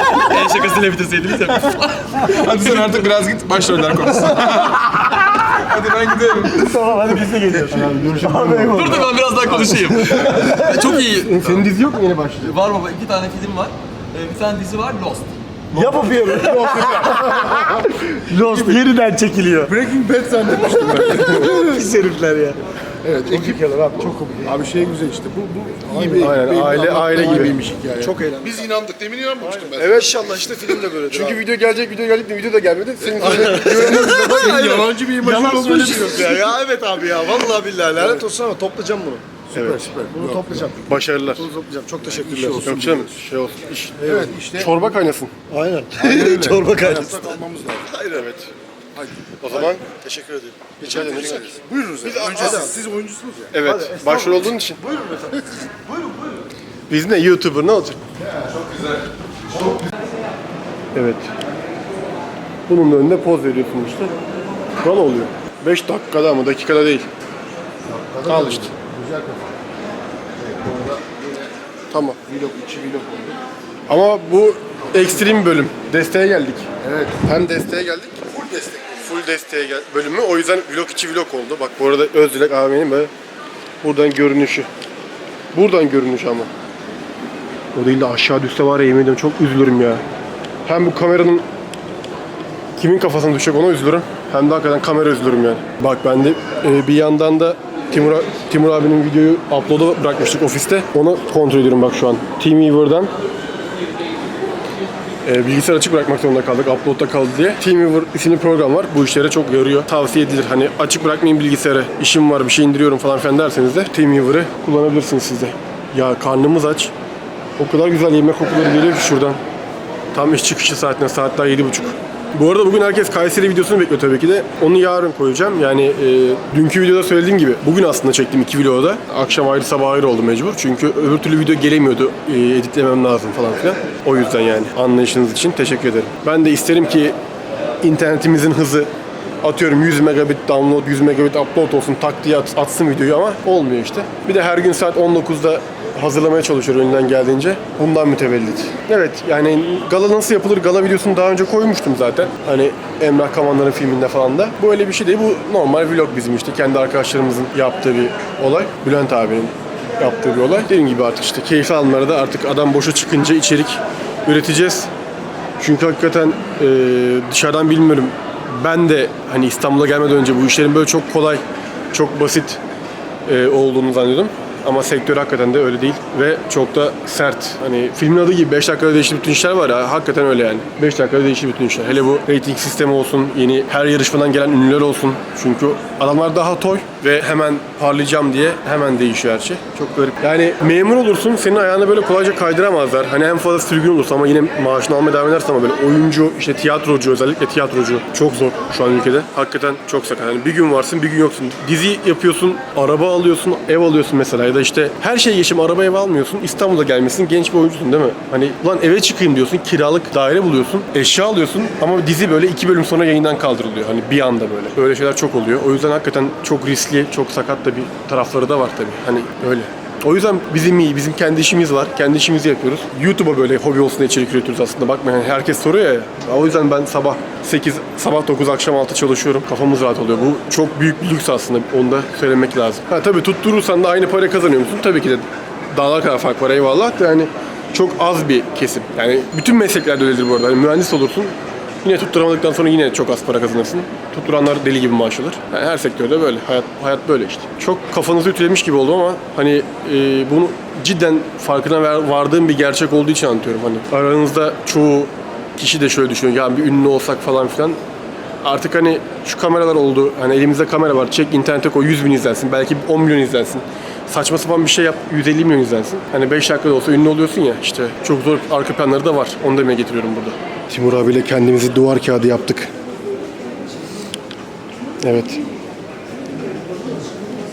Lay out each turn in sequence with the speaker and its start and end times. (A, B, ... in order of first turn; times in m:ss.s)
0:00.2-0:03.0 A
0:02.3-0:06.7 B
0:06.5-0:09.0 C
0:07.7-0:09.7 D
0:08.7-0:11.7 A
0:09.6-0:10.7 C
0:10.1-0:10.5 B
0:10.8-0:12.5 D
0:12.4-0:15.4 A
0:15.7-0:19.7 C
0:16.2-0:17.1 A
0:16.3-0:18.8 E
0:19.6-0:21.6 E
0:20.6-0:22.6 C
0:21.0-0:21.5 D
0:23.0-0:30.7 E
0:23.3-0:24.6 C
0:25.9-0:26.3 C
0:26.2-0:27.6 D
0:28.0-0:28.6 C
0:29.4-0:31.4 C
0:29.8-0:30.3 D
0:31.1-0:34.0 D
0:33.0-0:36.6 E
0:33.2-0:39.2 C
0:38.0-0:38.3 E
0:39.5-0:40.8 E
0:39.5-0:39.9 D
0:40.1-0:42.7 C
0:40.8-0:41.5 D
0:42.1-0:43.3 E
0:42.6-0:44.0 D
0:44.0-0:44.3 C
0:44.0-0:45.0 E
0:44.5-0:45.3 D
0:45.5-0:47.4 C
0:46.0-0:48.0 E
0:47.9-0:48.3 C
0:48.1-0:48.5 D
0:49.0-0:49.8 E
0:49.4-0:49.8 D
0:49.5-0:51.5 C
0:50.8-0:52.7 D
0:50.8-0:53.5 E
0:52.2-0:52.7 C
0:53.5-0:54.8 D
0:53.6-0:56.5 C
0:56.9-0:58.0 D
0:58.2-0:58.5 E
1:00.9-1:01.3 D
1:02.7-1:04.1 D
1:04.8-1:07.1 D
1:07.8-1:09.6 E
1:08.3-1:08.7 D
1:10.4-1:11.5 E
1:11.9-1:12.2 D
1:12.2-1:13.4 E
1:13.9-1:16.7 D
1:16.8-1:17.3 E
1:17.2-1:18.2 D
1:18.3-1:19.1 E
1:19.0-1:23.1 D
1:23.8-1:24.7 D
1:25.5-1:26.5 D
1:27.7-1:30.0 D
1:30.7-1:31.4 D
1:32.8-1:43.1 D
1:45.2-1:56.9 D
1:57.6-1:59.4 D
2:00.1-2:17.2 D
2:17.8-2:18.9 D
2:19.4-2:44.9 D
2:45.6-2:51.4 D
2:51.9-2:52.6 D
2:53.3-4:17.8 D
4:18.4-4:32.7 D
4:35.0-4:35.4 D